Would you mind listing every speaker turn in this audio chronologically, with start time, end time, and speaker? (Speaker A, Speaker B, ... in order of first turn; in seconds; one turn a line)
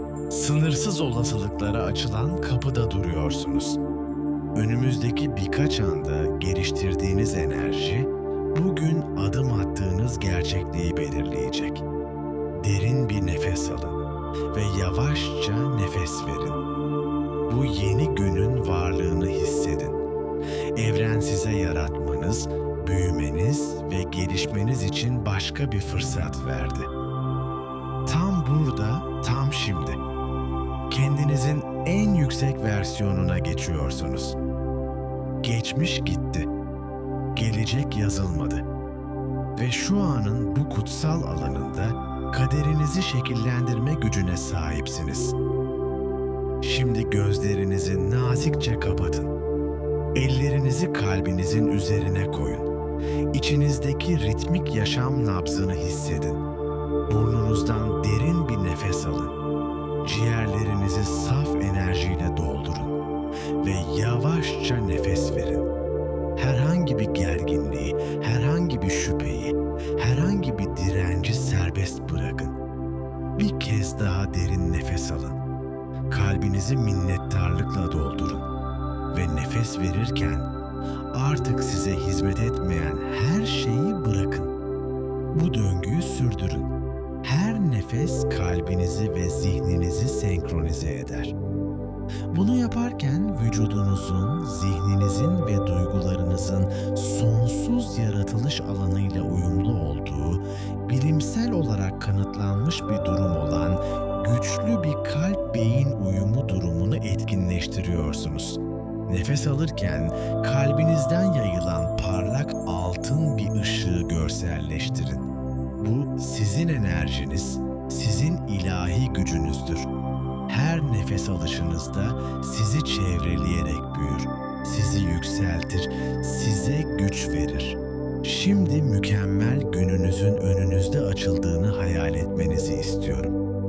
Speaker A: 0.3-3.8
Speaker A: 4.5-11.8
Speaker A: 12.6-14.0
Speaker A: 14.5-16.6
Speaker A: 17.5-20.0
Speaker A: 20.8-26.9
Speaker A: 28.1-30.0
Speaker A: 30.9-34.4
Speaker A: 35.4-36.5
Speaker A: 37.4-38.7
Speaker A: 39.6-45.4
Speaker A: 46.6-49.3
Speaker A: 50.1-52.7
Speaker A: 53.3-56.4
Speaker A: 57.1-59.4
Speaker A: 60.0-63.0
Speaker A: 63.6-65.7
Speaker A: 66.4-72.6
Speaker A: 73.4-75.4
Speaker A: 76.1-78.5
Speaker A: 79.1-80.5
Speaker A: 81.1-84.5
Speaker A: 85.3-91.3
Speaker A: 92.3-119.9
Speaker A: 120.5-133.4